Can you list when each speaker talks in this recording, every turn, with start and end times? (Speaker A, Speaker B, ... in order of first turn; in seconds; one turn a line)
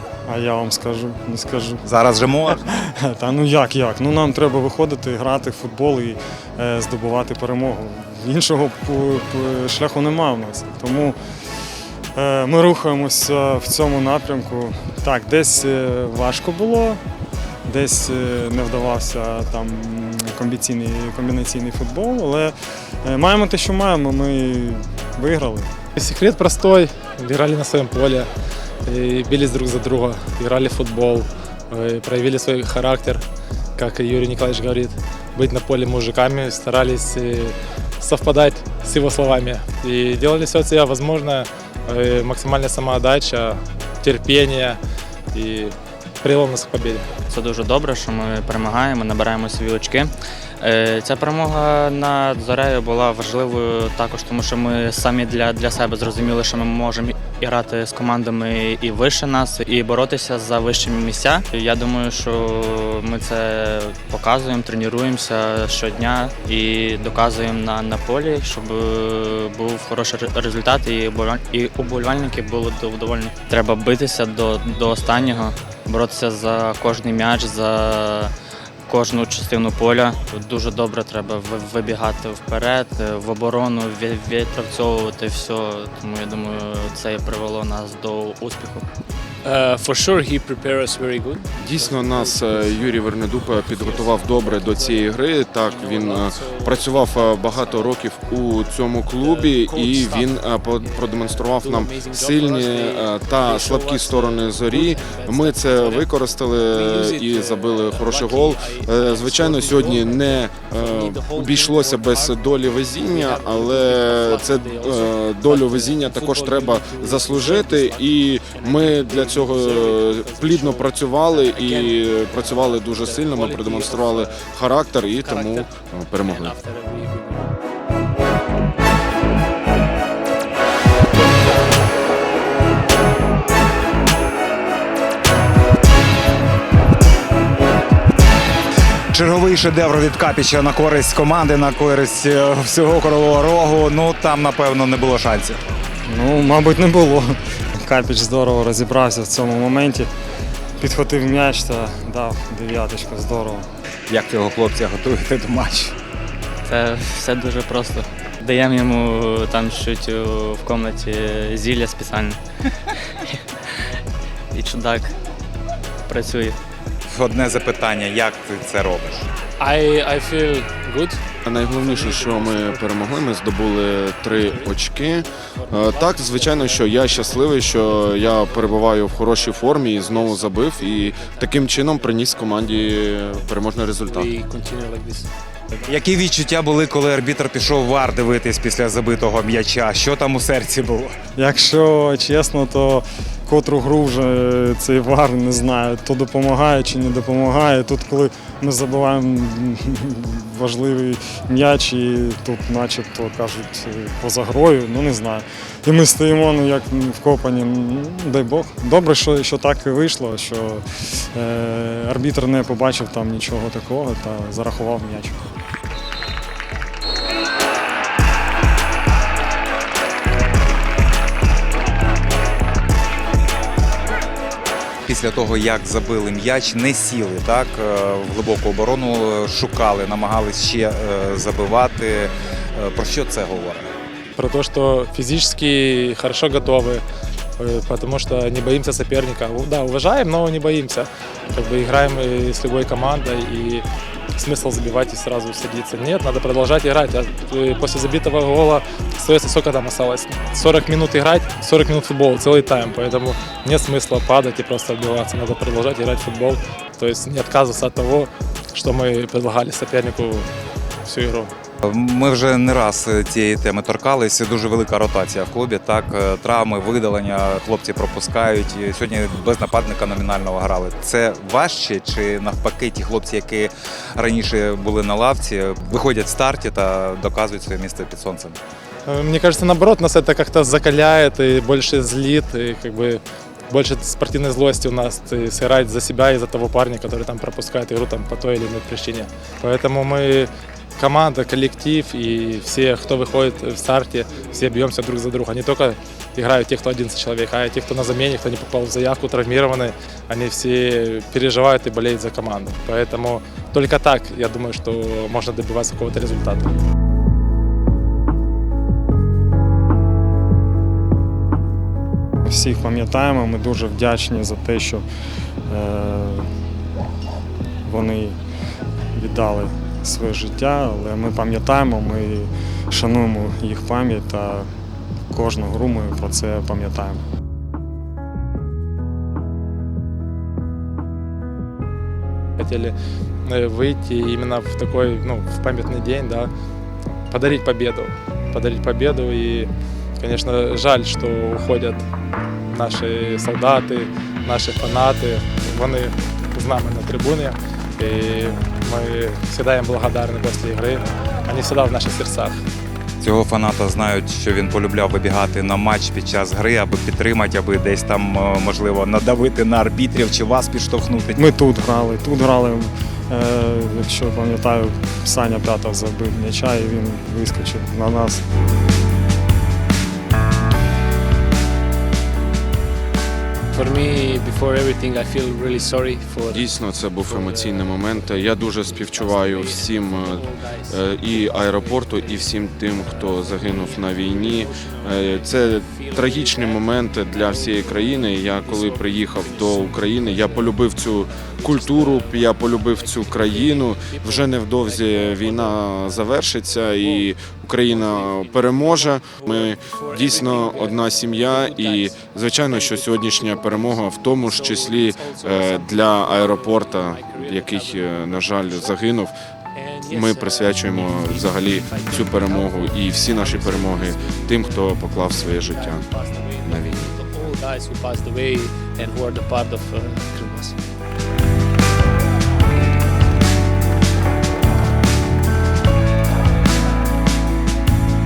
Speaker A: 0.3-1.8
Speaker B: 1.8-2.6
Speaker A: 2.5-11.2
Speaker A: 12.2-17.0
Speaker A: 17.7-25.7
Speaker C: 26.0-28.3
Speaker C: 28.9-33.2
Speaker C: 33.8-44.8
Speaker C: 45.3-47.1
Speaker D: 47.3-78.3
Speaker D: 78.9-88.8
Speaker E: 89.4-98.1
Speaker F: 91.6-126.6
Speaker E: 99.2-127.6
Speaker B: 139.1-145.6
Speaker A: 146.1-150.1
Speaker A: 150.8-153.7
Speaker B: 154.1-155.9
Speaker D: 156.7-162.4
Speaker D: 164.5-165.1
Speaker D: 166.1-166.6
Speaker B: 167.1-169.3
Speaker E: 169.6-173.5
Speaker F: 171.4-184.4
Speaker E: 174.2-174.9
Speaker E: 175.5-185.8
Speaker B: 185.8-191.2
Speaker A: 191.3-215.5
Speaker B: 225.1-233.9
Speaker C: 234.4-237.0
Speaker C: 237.6-260.5
Speaker C: 261.0-261.5
Speaker B: 261.8-278.6
Speaker C: 279.1-306.8
Speaker A: 312.5-315.1
Speaker A: 315.7-316.5
Speaker A: 317.9-318.4
Speaker A: 319.1-324.7
Speaker A: 325.3-327.2
Speaker C: 332.6-336.5
Speaker C: 337.3-342.1
Speaker C: 342.7-352.6
Speaker B: 353.2-361.5
Speaker A: 361.4-368.4
Speaker E: 373.7-409.1
Speaker F: 376.5-409.3
Speaker E: 409.7-420.8
Speaker F: 410.0-416.1
Speaker F: 416.6-417.2